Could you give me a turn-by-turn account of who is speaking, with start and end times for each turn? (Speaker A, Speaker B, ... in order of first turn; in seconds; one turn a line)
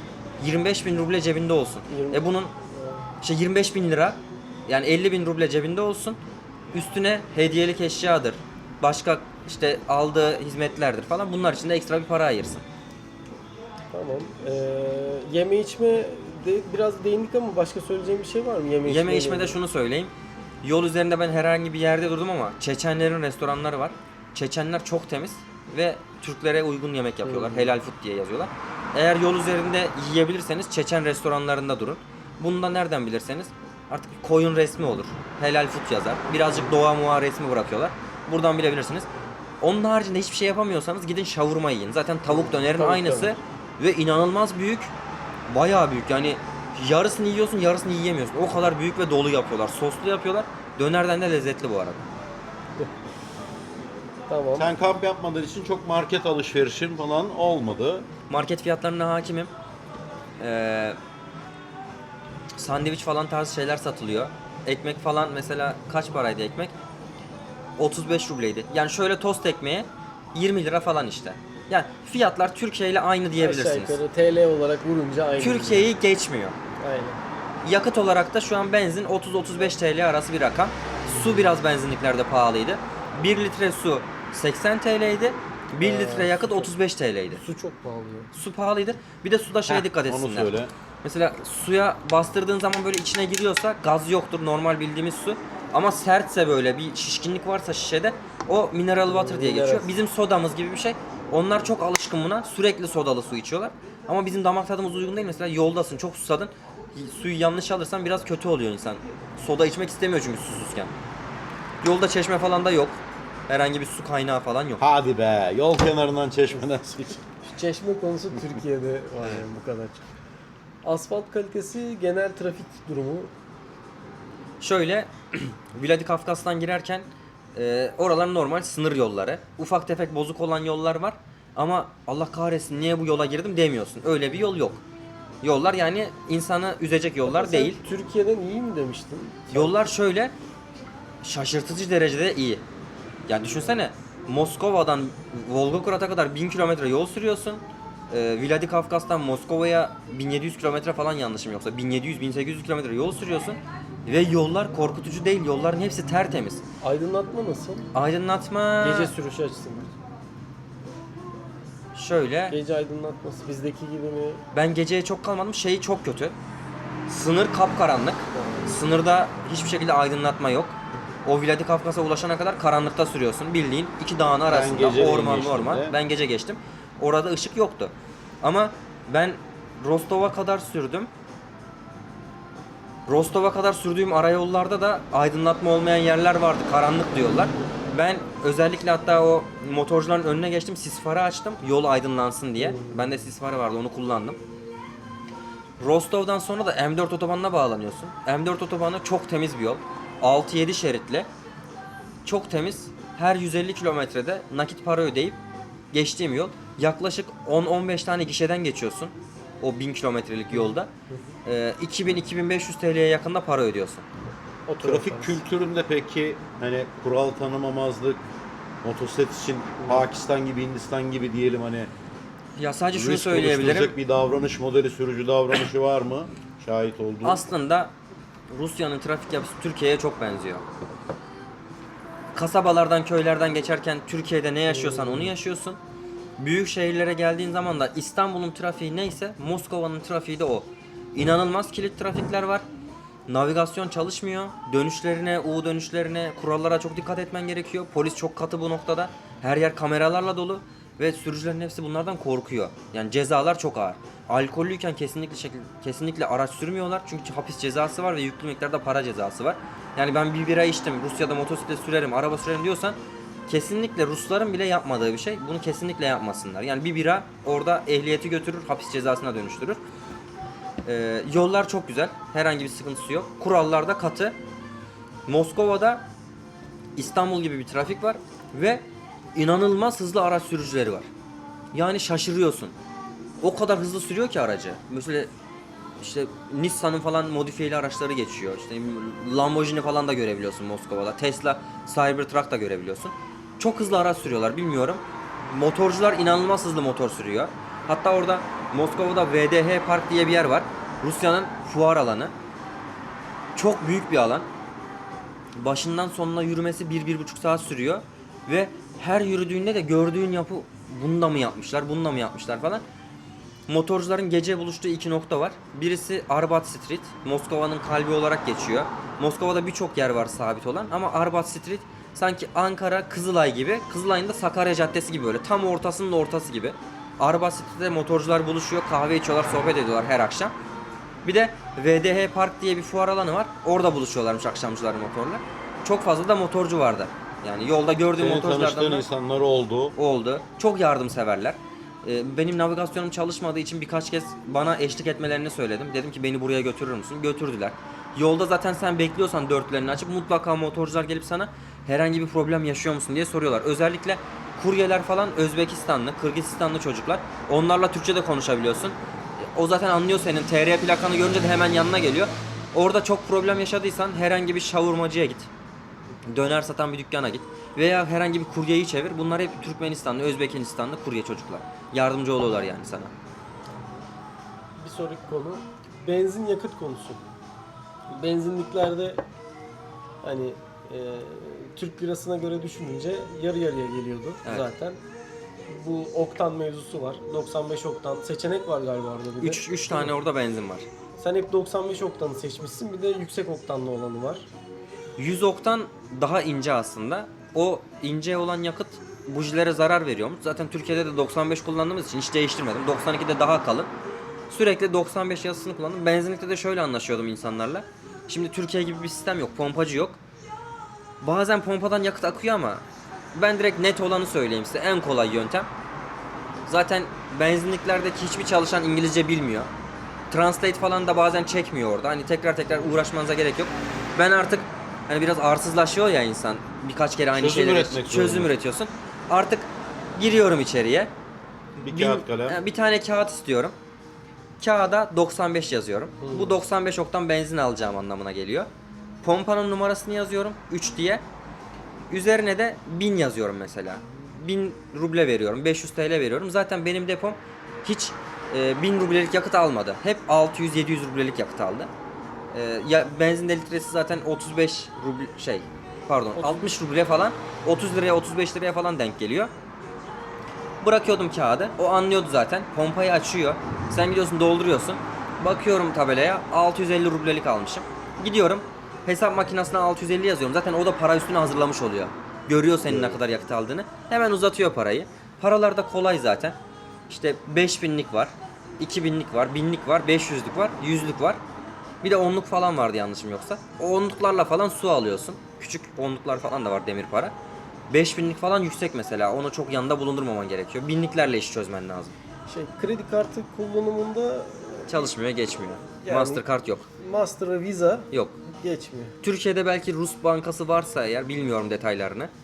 Speaker A: 0.4-2.5
Speaker B: 1.9-3.1
Speaker A: 3.2-6.2
Speaker A: 6.7-12.6
Speaker B: 13.9-19.6
Speaker A: 18.9-39.1
Speaker B: 27.2-27.7
Speaker A: 39.6-44.9
Speaker B: 42.3-43.3
Speaker A: 45.5-52.0
Speaker B: 54.3-54.7
Speaker C: 54.5-58.1
Speaker A: 58.3-59.5
Speaker A: 60.4-61.0
Speaker A: 62.5-66.7
Speaker A: 67.8-74.0
Speaker B: 73.4-75.9
Speaker A: 75.4-76.5
Speaker B: 76.8-77.2
Speaker A: 77.6-87.4
Speaker B: 85.8-86.7
Speaker B: 87.3-88.3
Speaker A: 88.3-110.9
Speaker C: 89.7-90.7
Speaker B: 99.0-99.9
Speaker A: 111.8-114.8
Speaker C: 114.8-117.2
Speaker B: 117.5-120.1
Speaker B: 120.8-123.3
Speaker A: 124.6-134.8
Speaker A: 135.4-137.8
Speaker B: 137.2-139.8
Speaker A: 139.5-140.3
Speaker A: 141.2-142.6
Speaker A: 143.3-156.6
Speaker B: 156.8-157.9
Speaker A: 157.9-159.1
Speaker B: 158.8-159.9
Speaker A: 161.9-162.6
Speaker B: 162.5-164.4
Speaker A: 164.5-166.3
Speaker A: 167.1-181.1
Speaker B: 168.3-168.7
Speaker C: 174.4-176.0
Speaker A: 183.1-194.4
Speaker B: 192.6-193.1
Speaker A: 195.8-201.3
Speaker A: 202.2-205.4
Speaker A: 205.9-210.9
Speaker B: 210.5-211.2
Speaker A: 211.4-214.0
Speaker B: 214.7-215.4
Speaker C: 214.8-218.2
Speaker C: 218.8-221.9
Speaker B: 219.8-220.0
Speaker A: 222.6-223.9
Speaker C: 222.9-227.4
Speaker A: 227.2-227.9
Speaker A: 228.5-230.6
Speaker A: 232.3-235.8
Speaker B: 234.7-235.3
Speaker A: 236.4-242.6
Speaker A: 243.3-269.8
Speaker A: 270.8-274.4
Speaker A: 275.2-276.1
Speaker A: 276.9-278.8
Speaker A: 279.3-281.1
Speaker A: 281.7-282.7
Speaker A: 283.4-285.3
Speaker A: 286.0-302.3
Speaker A: 303.5-304.5
Speaker A: 305.6-312.8
Speaker A: 313.7-330.5
Speaker A: 331.2-339.0
Speaker C: 338.2-339.9
Speaker A: 340.0-365.5
Speaker A: 366.2-373.1
Speaker B: 374.8-377.3
Speaker B: 378.1-379.2
Speaker B: 380.2-385.0
Speaker B: 385.7-390.1
Speaker A: 389.4-390.9
Speaker B: 391.2-394.5
Speaker A: 395.2-403.9
Speaker A: 404.5-410.2
Speaker A: 411.2-415.7
Speaker A: 416.7-419.7
Speaker A: 420.3-431.1
Speaker C: 427.3-428.5
Speaker C: 431.8-432.6
Speaker A: 431.8-433.7
Speaker A: 434.6-438.7
Speaker B: 436.2-436.5
Speaker A: 439.2-441.2
Speaker A: 442.1-451.9
Speaker A: 452.5-459.5
Speaker B: 456.4-456.7
Speaker A: 460.8-481.4
Speaker C: 472.9-473.2
Speaker A: 482.0-487.3
Speaker A: 487.9-492.1
Speaker B: 492.5-495.1
Speaker A: 494.9-496.9
Speaker B: 496.0-496.4
Speaker B: 497.0-499.1
Speaker A: 498.1-498.4
Speaker A: 499.2-502.3